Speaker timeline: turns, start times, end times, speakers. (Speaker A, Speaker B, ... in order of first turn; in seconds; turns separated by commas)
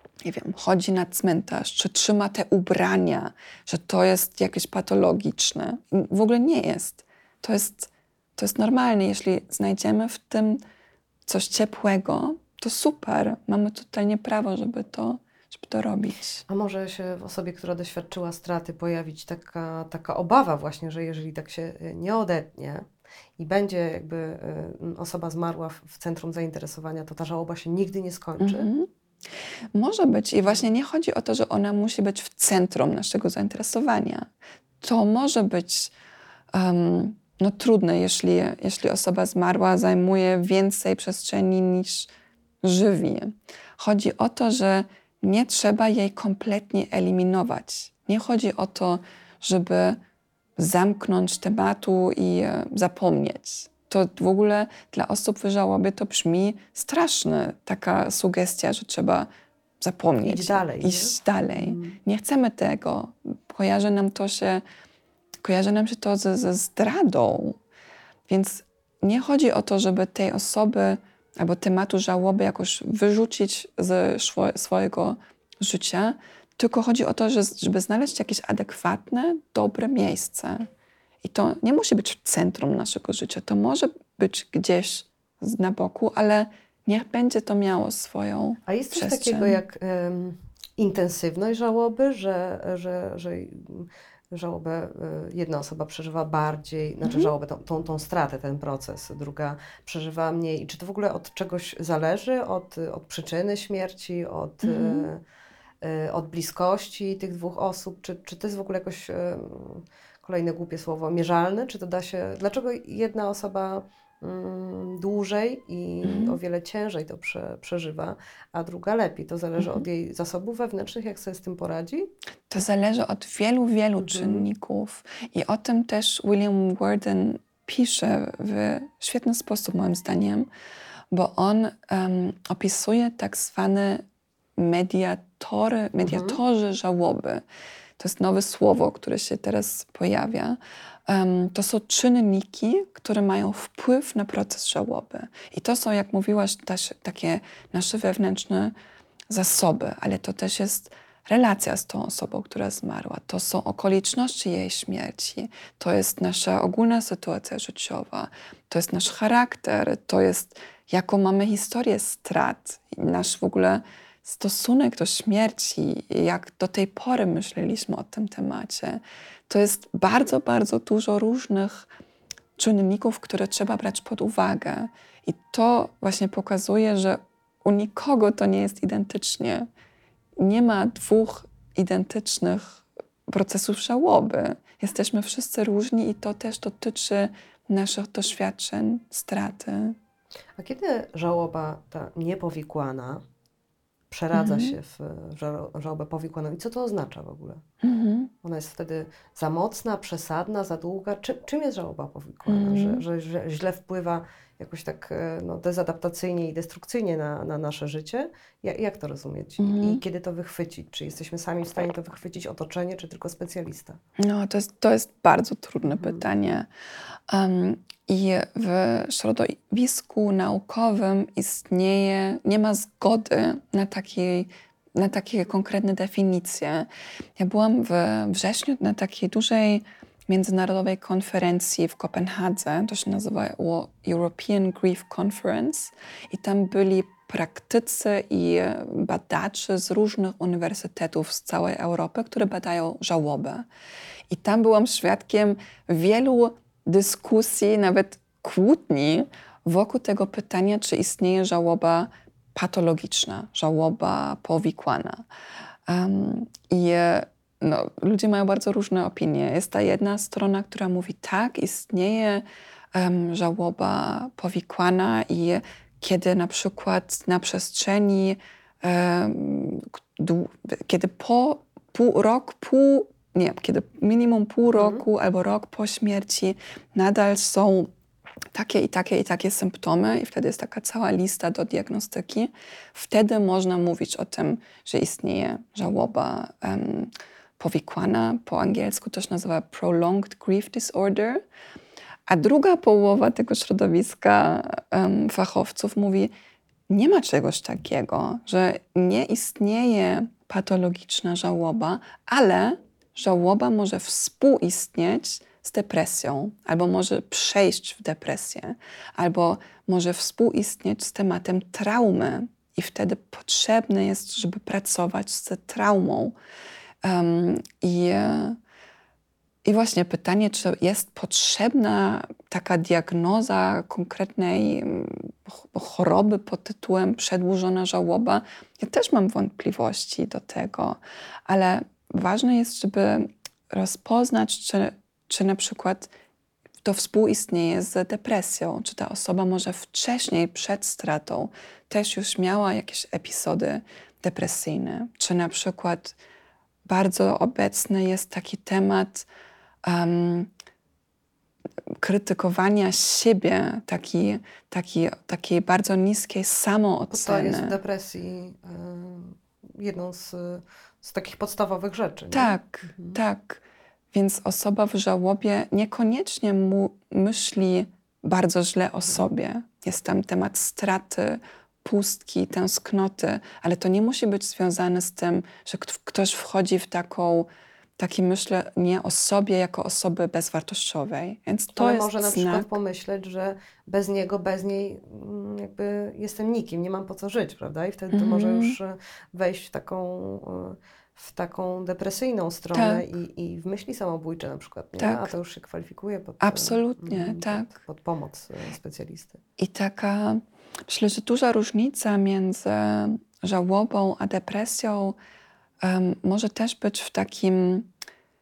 Speaker A: 0.2-10.6, Speaker A: 11.3-16.4, Speaker B: 16.5-22.9, Speaker B: 23.4-28.7, Speaker A: 28.4-28.9, Speaker A: 29.7-35.9, Speaker A: 36.5-42.1, Speaker A: 42.6-50.0, Speaker A: 50.6-59.3, Speaker A: 59.8-64.6, Speaker B: 60.2-62.0, Speaker A: 65.4-67.6, Speaker A: 68.3-80.7, Speaker A: 81.2-89.6, Speaker B: 88.7-105.2, Speaker A: 97.0-97.3, Speaker A: 104.6-105.1, Speaker B: 105.8-122.1, Speaker A: 116.1-116.3, Speaker A: 119.6-119.8, Speaker A: 122.5-130.5, Speaker B: 124.0-124.5, Speaker A: 131.1-134.1, Speaker A: 134.6-137.4, Speaker B: 136.0-136.4, Speaker A: 138.0-148.8, Speaker A: 149.3-171.9, Speaker A: 172.6-179.7, Speaker A: 180.4-190.0, Speaker B: 190.6-193.2, Speaker B: 194.1-197.6, Speaker A: 194.3-194.8, Speaker A: 197.8-198.3, Speaker B: 198.4-214.0, Speaker A: 202.5-203.0, Speaker A: 209.6-210.0, Speaker A: 214.2-216.7, Speaker B: 215.8-216.2, Speaker A: 217.3-243.7, Speaker A: 244.3-255.2, Speaker A: 255.9-277.9, Speaker B: 274.7-275.0, Speaker A: 278.5-291.4, Speaker A: 292.3-296.3, Speaker A: 296.9-316.4, Speaker A: 317.0-318.6, Speaker A: 319.6-336.1, Speaker A: 336.8-346.2, Speaker A: 346.9-349.3, Speaker A: 349.8-350.5, Speaker A: 351.9-357.8, Speaker B: 357.1-363.2, Speaker A: 362.3-382.7, Speaker B: 381.8-399.4, Speaker A: 388.1-388.8, Speaker A: 392.7-393.0, Speaker A: 395.0-395.3, Speaker A: 396.4-397.7, Speaker A: 399.6-405.2, Speaker A: 405.8-407.9